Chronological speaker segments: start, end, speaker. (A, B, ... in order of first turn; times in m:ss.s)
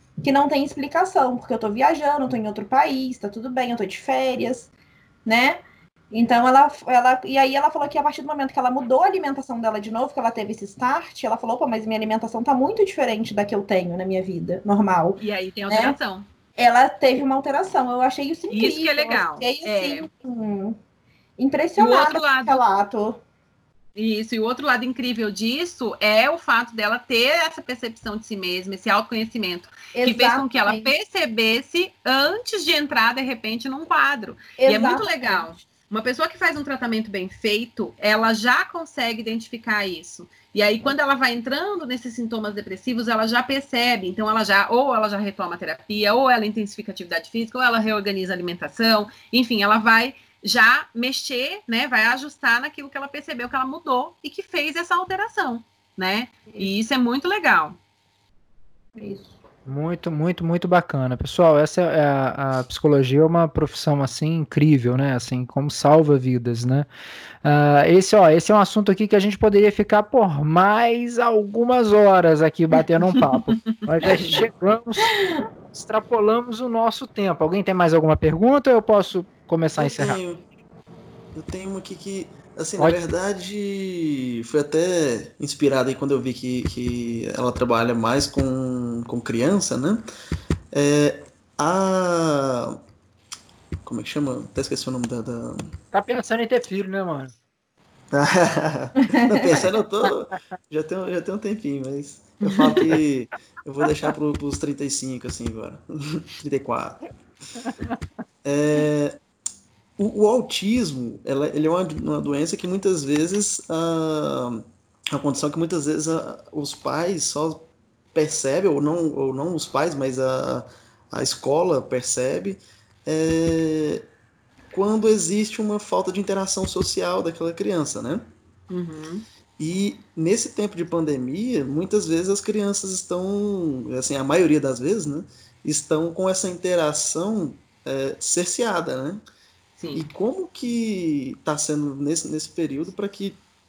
0:00.2-0:04.7 A
0:05.2-0:16.0 A
0:15.2-0:16.3 B
0:16.6-0:20.8 A
0:18.5-0:20.0 B
0:21.4-0:23.2 A
0:21.8-0:22.6 B
0:24.0-0:57.8 B
0:29.9-0:30.9 A
0:34.6-0:35.5 A
0:59.0-0:59.3 A
0:59.6-1:06.9 C
1:07.4-1:15.1 C
1:13.1-1:13.7 B
1:15.7-1:20.2 C
1:19.8-1:20.4 D
1:21.3-1:30.0 D
1:30.7-1:32.8 D
1:33.8-1:35.7 D
1:35.9-1:37.3 C
1:38.1-1:47.1 D
1:48.4-1:49.2 D
1:50.0-2:04.0 D
2:04.7-2:08.2 D
2:08.7-2:09.2 B
2:09.6-2:19.2 D
2:19.8-2:20.1 B
2:19.9-2:23.4 D